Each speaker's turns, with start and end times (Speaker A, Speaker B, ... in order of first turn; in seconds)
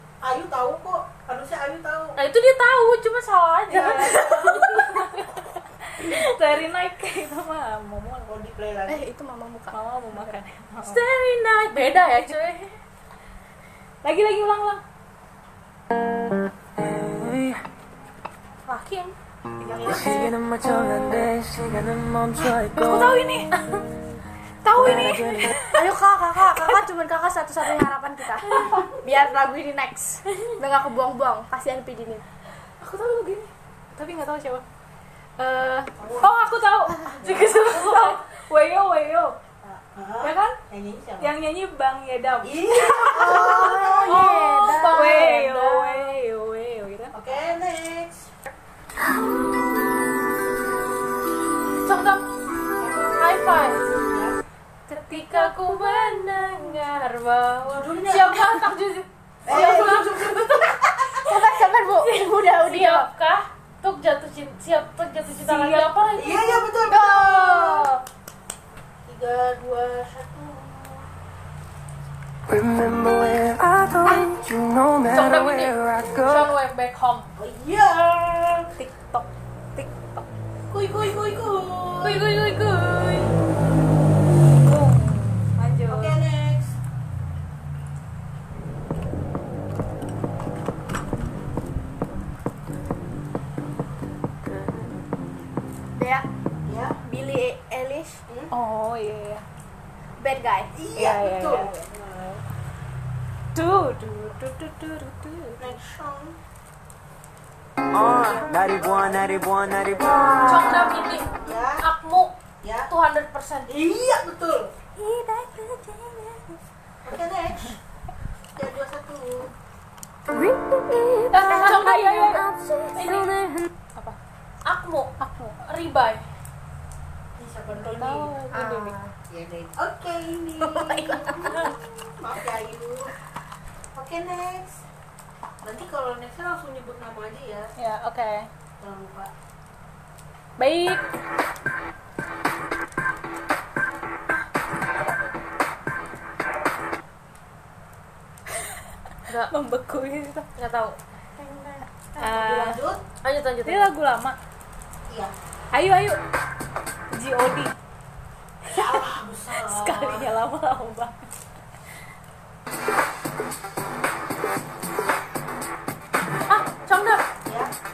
Speaker A: 0.2-2.1, 3.7-4.8, 8.3-9.0, 36.0-36.4, 39.6-41.3, 42.4-44.2, 47.1-48.3, 52.8-53.2, 53.9-54.4, 57.7-58.5, 59.5-61.2, 66.1-67.9, 69.0-71.1, 77.4-78.7, 80.7-82.3, 85.9-86.7, 96.7-97.0, 100.7-102.4, 105.6-106.4, 111.4-111.8, 112.6-112.9, 113.7-114.7, 117.0-117.8, 118.5-119.5, 127.4-128.3, 129.3-133.1, 133.9-134.8, 135.6-137.7, 138.8-139.3, 152.2-153.0, 158.7-160.3, 167.4-167.7
Speaker B: 2.1-5.4, 10.8-12.8, 18.6-19.1, 37.2-38.2, 44.0-46.1, 51.8-52.2, 53.1-53.9, 55.1-60.7, 61.8-66.7, 75.1-77.3, 82.0-83.3, 110.4-112.4, 112.9-113.7, 121.3-122.4, 122.9-123.5, 124.7-125.1, 125.6-126.2, 150.6-151.0, 153.2-153.9, 166.5-167.2
Speaker C: 3.7-5.2, 5.9-8.3, 9.7-11.0, 11.9-12.2, 14.0-14.8, 19.6-20.2, 22.8-23.5, 24.6-25.8, 28.4-28.9, 32.8-34.6, 35.4-39.4, 40.2-40.6, 41.2-43.6, 44.8-47.2, 54.9-56.4, 65.3-65.9, 78.8-80.2, 84.6-86.2, 98.5-99.4, 101.0-102.0, 103.5-105.7, 121.3-122.3, 125.2-125.5, 127.7-128.9, 137.8-138.5, 140.6-141.0, 149.5-150.5, 152.2-152.8, 153.6-154.4, 155.7-156.2, 157.1-157.7, 158.7-161.3
Speaker D: 8.9-9.8, 25.7-32.2, 43.0-45.3, 59.5-60.1, 61.1-63.1, 66.8-68.0, 96.0-96.2, 97.0-98.2, 100.2-100.7, 110.0-111.0, 115.0-116.6, 120.3-123.7, 128.5-129.1, 130.6-131.7, 151.4-152.2
Speaker E: 16.8-17.6, 19.8-23.2, 24.7-25.6, 72.5-76.5, 107.9-110.3